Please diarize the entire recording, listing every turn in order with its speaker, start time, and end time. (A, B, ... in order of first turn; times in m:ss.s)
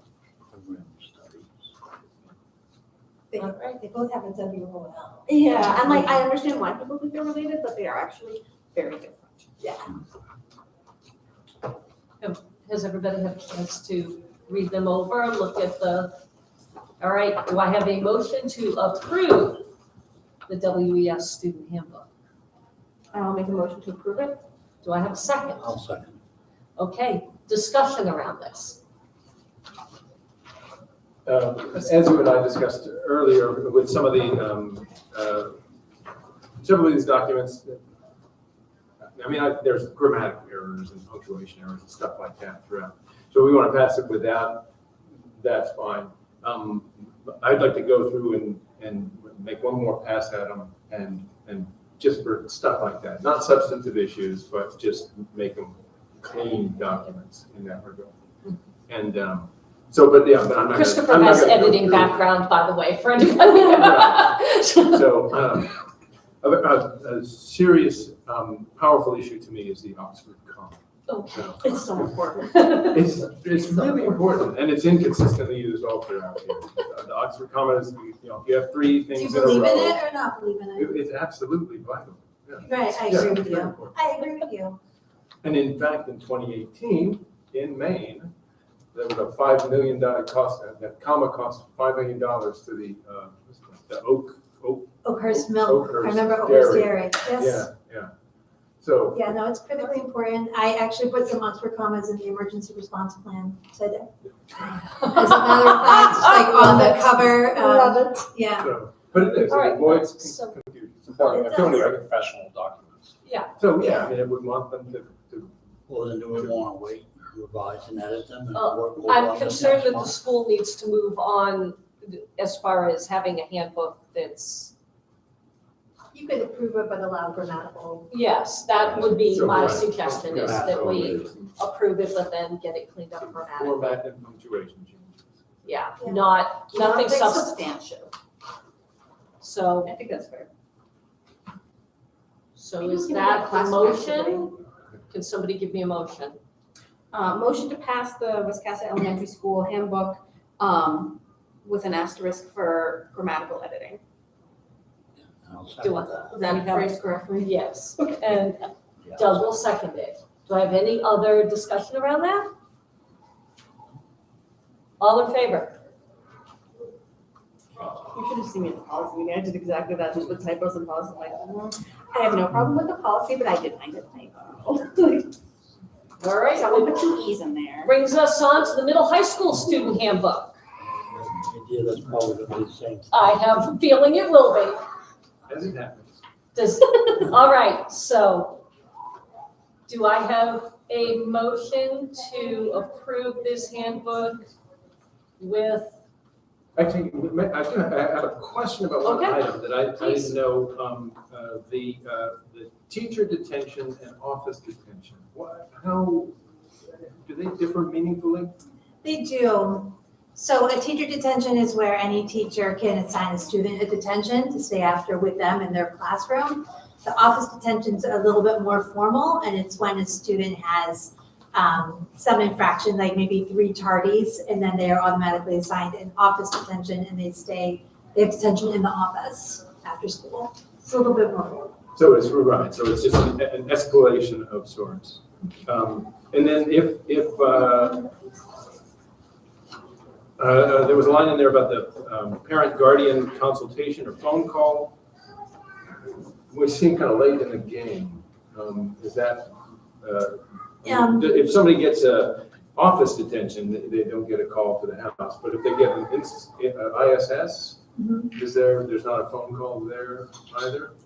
0:00.5-0:01.5 A
0:03.3-0:06.2 B
0:03.4-0:03.8 C
0:05.3-0:09.5 D
0:12.2-0:16.1 C
0:17.0-0:19.7 C
0:20.5-0:22.0 C
0:23.1-0:24.4 D
0:24.8-0:25.7 C
0:25.6-0:26.2 A
0:26.8-0:28.8 C
0:31.2-0:35.6 E
0:36.6-0:37.8 E
0:39.1-0:44.7 E
0:45.2-0:58.1 E
0:58.9-1:02.2 E
1:00.7-1:05.0 C
1:03.4-1:05.8 E
1:06.4-1:10.8 E
1:11.3-1:12.1 E
1:11.6-1:12.8 D
1:12.5-1:13.0 C
1:12.8-1:20.0 E
1:13.7-1:14.2 D
1:19.1-1:21.0 B
1:20.8-1:24.0 E
1:22.6-1:24.8 B
1:25.4-1:28.3 E
1:28.9-1:38.1 E
1:35.0-1:37.7 B
1:38.8-1:39.3 E
1:39.1-1:48.7 B
1:45.0-1:47.0 C
1:48.6-1:51.5 E
1:49.5-1:50.6 C
1:51.0-1:53.1 F
1:51.3-1:51.9 B
1:53.2-1:53.5 C
1:53.6-1:55.5 E
1:55.9-2:00.1 A
1:58.5-2:04.7 C
2:06.1-2:08.1 B
2:08.1-2:13.9 C
2:08.9-2:11.5 E
2:13.2-2:15.3 E
2:15.6-2:17.6 C
2:16.0-2:16.2 B
2:16.6-2:18.1 D
2:19.4-2:19.9 C
2:19.8-2:20.5 D
2:22.6-2:24.6 C
2:22.8-2:24.5 D
2:25.1-2:26.4 C
2:27.1-2:34.0 D
2:35.3-2:36.3 A
2:35.8-2:36.9 C
2:36.3-2:38.2 D
2:37.4-2:42.5 C
2:45.0-2:45.8 C
2:48.0-2:55.3 D
2:56.2-2:57.0 C
2:56.5-2:57.9 D
2:57.8-3:00.5 C
3:00.9-3:03.2 A
3:03.1-3:04.8 C
3:05.5-3:06.2 E
3:06.5-3:08.6 C
3:09.9-3:14.5 C
3:15.4-3:16.0 C
3:16.8-3:26.3 E
3:19.0-3:19.4 C
3:20.0-3:20.3 C
3:27.2-3:28.5 E
3:29.0-3:51.7 B
3:51.9-3:58.1 E
4:00.4-4:05.0 E
4:06.5-4:17.8 E
4:10.8-4:11.2 B
4:18.0-4:18.3 B
4:18.3-4:20.9 E